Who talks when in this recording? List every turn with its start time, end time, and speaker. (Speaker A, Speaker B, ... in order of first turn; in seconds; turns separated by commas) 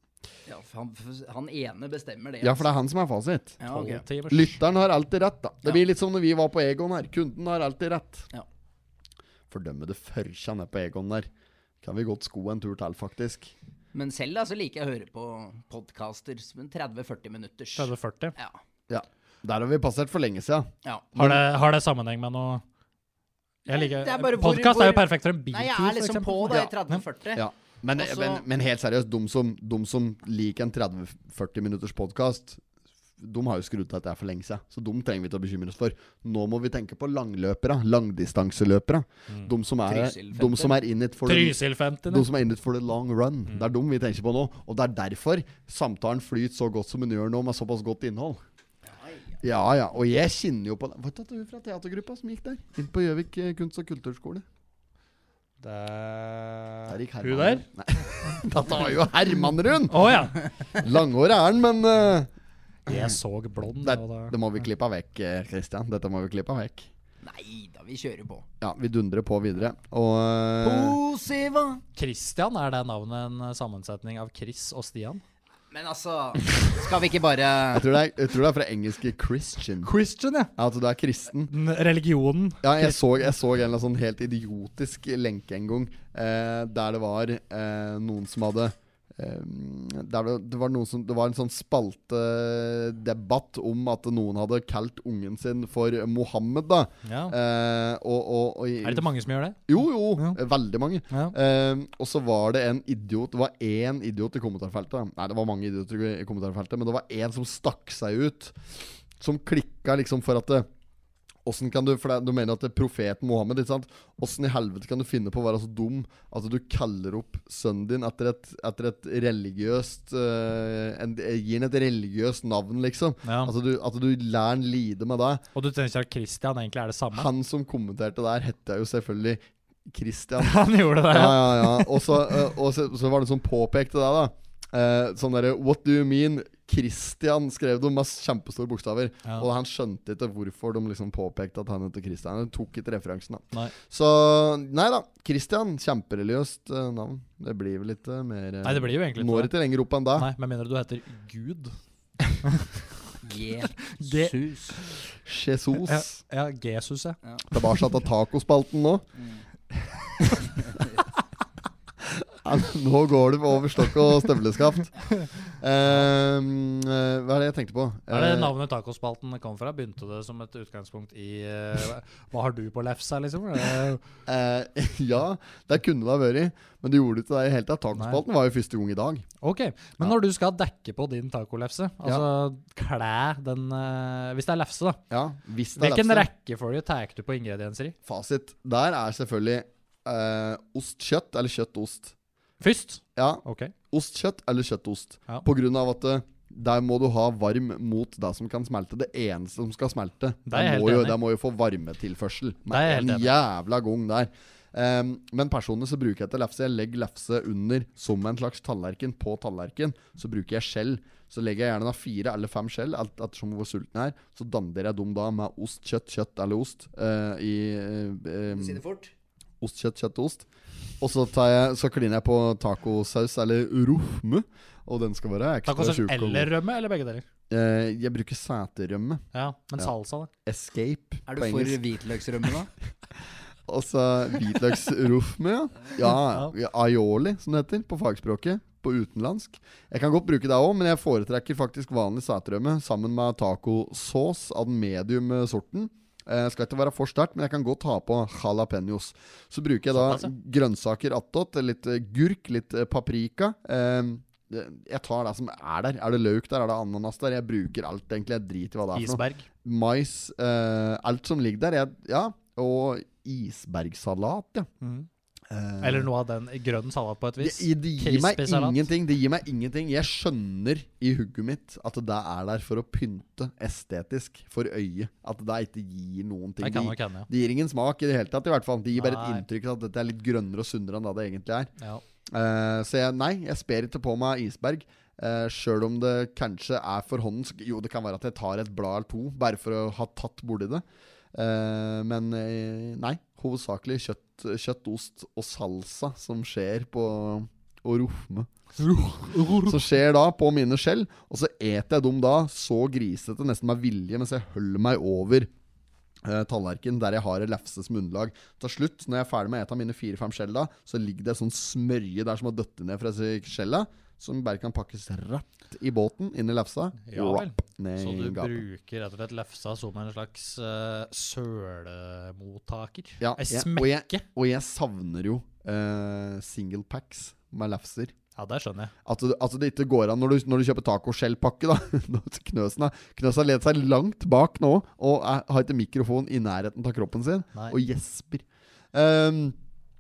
Speaker A: 0.5-2.7, Speaker B: 2.4-3.6, Speaker A: 3.6-4.0, Speaker C: 3.7-4.6, Speaker B: 4.3-8.3, Speaker B: 9.5-11.3, Speaker B: 11.8-13.5, Speaker A: 13.9-18.6, Speaker C: 17.8-18.3, Speaker B: 18.9-21.4, Speaker C: 21.1-22.6, Speaker C: 23.7-27.0, Speaker A: 23.7-27.4, Speaker B: 27.3-32.6, Speaker A: 27.9-28.4, Speaker B: 33.2-48.4, Speaker A: 39.8-40.8, Speaker C: 41.2-42.3, Speaker A: 49.0-49.3, Speaker B: 49.4-54.4, Speaker C: 55.6-57.6, Speaker B: 56.9-60.2, Speaker C: 59.9-60.4, Speaker B: 60.7-62.3, Speaker C: 62.9-64.3, Speaker B: 62.9-63.1, Speaker B: 63.8-66.9, Speaker A: 67.2-68.5, Speaker B: 68.6-71.0, Speaker A: 70.6-71.8, Speaker C: 71.9-75.2, Speaker A: 75.7-77.9, Speaker B: 77.7-79.9, Speaker C: 79.8-80.5, Speaker B: 80.5-81.5, Speaker C: 81.5-83.2, Speaker B: 82.6-99.1, Speaker C: 97.0-97.3, Speaker C: 98.8-100.4, Speaker B: 99.7-110.7, Speaker B: 111.5-125.4, Speaker C: 123.2-123.5, Speaker C: 125.5-127.3, Speaker B: 127.1-150.3, Speaker C: 130.4-132.2, Speaker C: 148.6-149.5, Speaker C: 150.1-151.8, Speaker C: 152.4-152.7, Speaker A: 153.2-154.8, Speaker C: 153.8-154.3, Speaker B: 155.2-156.2, Speaker C: 155.8-157.2, Speaker B: 157.5-159.0, Speaker B: 162.0-168.5, Speaker C: 168.1-174.0, Speaker B: 174.2-179.2, Speaker C: 177.9-178.2, Speaker C: 179.4-185.0, Speaker B: 185.1-186.3, Speaker C: 185.8-187.9, Speaker B: 188.0-192.1, Speaker C: 192.6-193.7, Speaker B: 193.2-218.8, Speaker C: 200.5-201.2, Speaker C: 202.7-203.3, Speaker A: 218.5-219.1, Speaker B: 219.6-220.4, Speaker B: 221.0-226.5, Speaker C: 225.7-227.2, Speaker B: 227.5-229.2, Speaker C: 229.3-230.3, Speaker B: 230.4-231.8, Speaker A: 231.3-232.7, Speaker B: 233.7-264.7, Speaker C: 249.9-250.3, Speaker C: 258.9-259.4, Speaker C: 264.8-265.1, Speaker B: 265.5-266.1, Speaker C: 265.8-268.9, Speaker B: 267.4-281.7, Speaker C: 276.6-277.3, Speaker C: 278.9-279.4, Speaker B: 282.3-298.5, Speaker C: 298.8-299.8, Speaker B: 299.4-305.5, Speaker B: 306.2-318.6, Speaker C: 317.0-324.2, Speaker B: 323.2-328.1, Speaker C: 328.4-328.9, Speaker B: 329.1-339.6